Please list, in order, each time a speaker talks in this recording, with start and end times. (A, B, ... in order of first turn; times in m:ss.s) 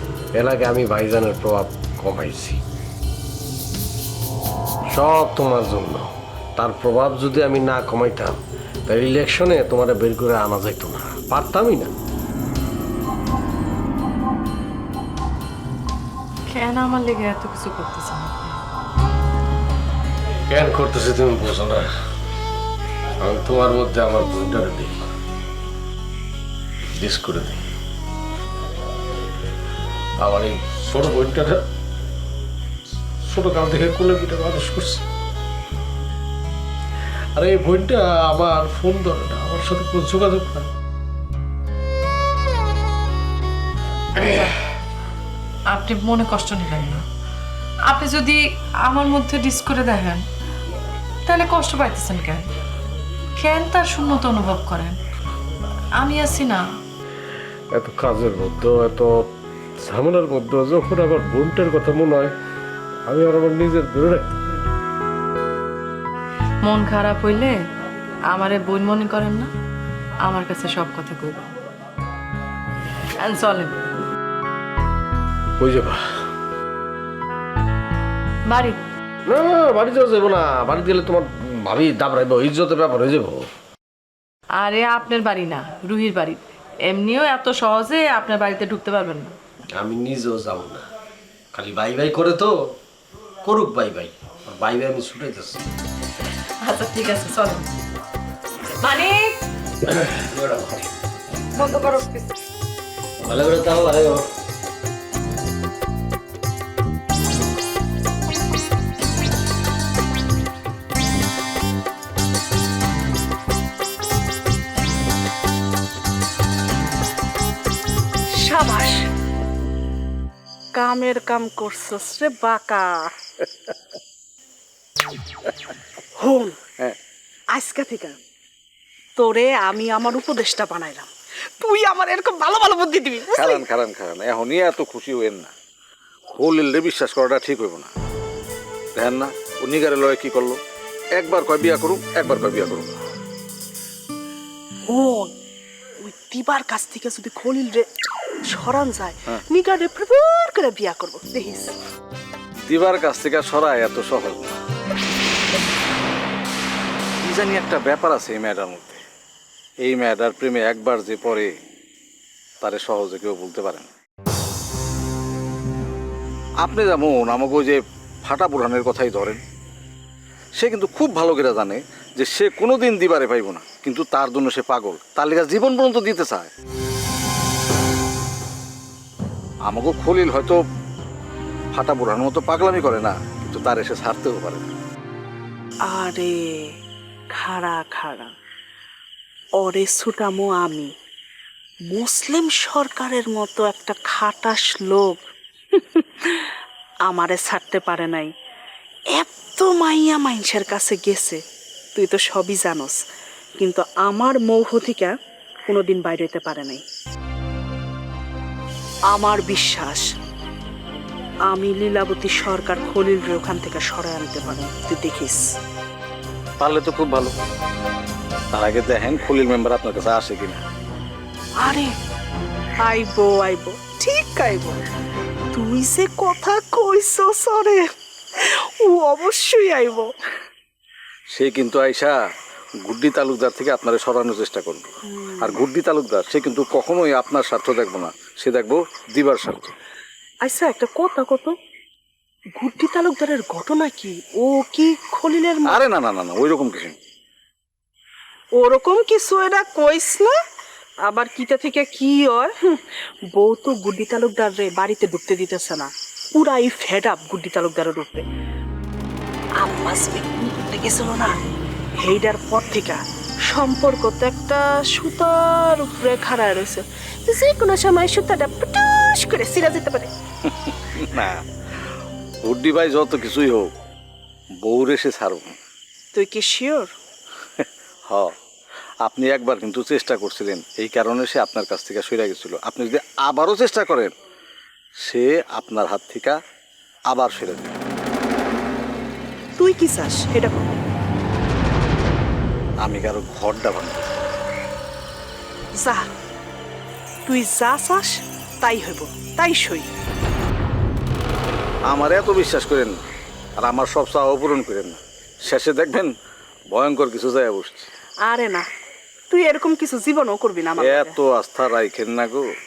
0:00.4-0:02.6 A
0:04.9-0:06.1 A
0:06.6-0:11.9 A
0:16.5-0:18.6 B
0:20.5-0:21.9 A
0:23.2-0:24.9 A
0:27.0-0:27.6 A
0:30.2-0:31.6 A
0:33.3-0:35.0 A
0:37.4-0:40.7 A
0:44.2-0:44.5 B
0:45.7-0:47.0 B
0:47.9-0:50.2 B
0:51.2-0:52.5 B
0:53.4-0:55.0 B
0:56.0-0:56.6 B
0:57.7-0:59.1 A
0:59.9-1:02.3 A
1:03.1-1:04.4 A
1:06.6-1:07.6 B
1:08.3-1:09.5 B
1:10.2-1:11.4 B
1:13.2-1:13.8 B
1:15.6-1:16.0 A
1:18.5-1:18.8 B
1:19.3-1:23.5 A
1:24.6-1:29.3 B
1:29.7-1:30.8 A
1:31.5-1:32.5 A
1:33.4-1:35.6 A
1:36.6-1:37.7 B
1:38.8-1:39.3 B
1:39.9-1:40.8 A
1:41.6-1:42.3 B
1:43.2-1:44.2 A
1:58.3-1:59.1 C
2:00.7-2:03.1 C
2:06.2-2:06.6 C
2:07.5-2:08.2 C
2:09.2-2:13.6 C
2:13.3-2:15.5 D
2:16.3-2:17.9 D
2:18.9-2:20.6 D
2:21.2-2:22.9 D
2:24.8-2:25.3 C
2:26.0-2:27.9 C
2:28.4-2:31.8 C
2:32.7-2:34.6 D
2:37.2-2:39.0 D
2:39.8-2:41.5 D
2:42.6-2:43.9 D
2:46.6-2:49.4 D
2:50.6-2:56.5 D
2:59.7-3:00.6 D
3:01.7-3:04.7 D
3:05.8-3:06.7 C
3:07.3-3:08.3 C
3:09.6-3:10.9 C
3:11.9-3:15.2 C
3:15.7-3:16.4 C
3:17.0-3:18.3 C
3:19.1-3:21.4 C
3:21.9-3:23.0 C
3:23.6-3:25.1 C
3:25.7-3:26.8 C
3:29.1-3:30.1 C
3:31.4-3:35.5 C
3:36.6-3:37.3 D
3:38.5-3:40.6 D
3:41.6-3:41.9 C
3:42.8-3:44.8 C
3:45.5-3:47.8 C
3:48.4-3:50.1 C
3:51.3-3:52.1 D
3:52.8-3:54.9 D
3:55.1-3:55.6 C
3:55.4-3:59.8 D
4:00.4-4:01.5 C
4:02.6-4:05.8 C
4:05.7-4:07.0 D
4:08.5-4:10.3 C
4:11.0-4:12.8 C
4:13.3-4:18.2 C
4:19.6-4:21.4 C
4:22.0-4:30.1 C
4:30.6-4:31.4 D
4:32.4-4:33.7 D
4:34.6-4:35.6 D
4:36.1-4:36.9 C
4:37.6-4:38.3 D
4:39.0-4:44.1 D
4:45.0-4:46.4 D
4:47.1-4:47.8 D
4:49.6-4:50.8 C
4:52.8-4:54.2 D
4:55.8-4:56.1 C
4:57.2-4:59.9 C
5:01.9-5:03.0 D
5:03.6-5:06.1 D
5:06.7-5:07.9 D
5:08.2-5:08.6 C
5:09.3-5:11.2 C
5:10.8-5:12.4 D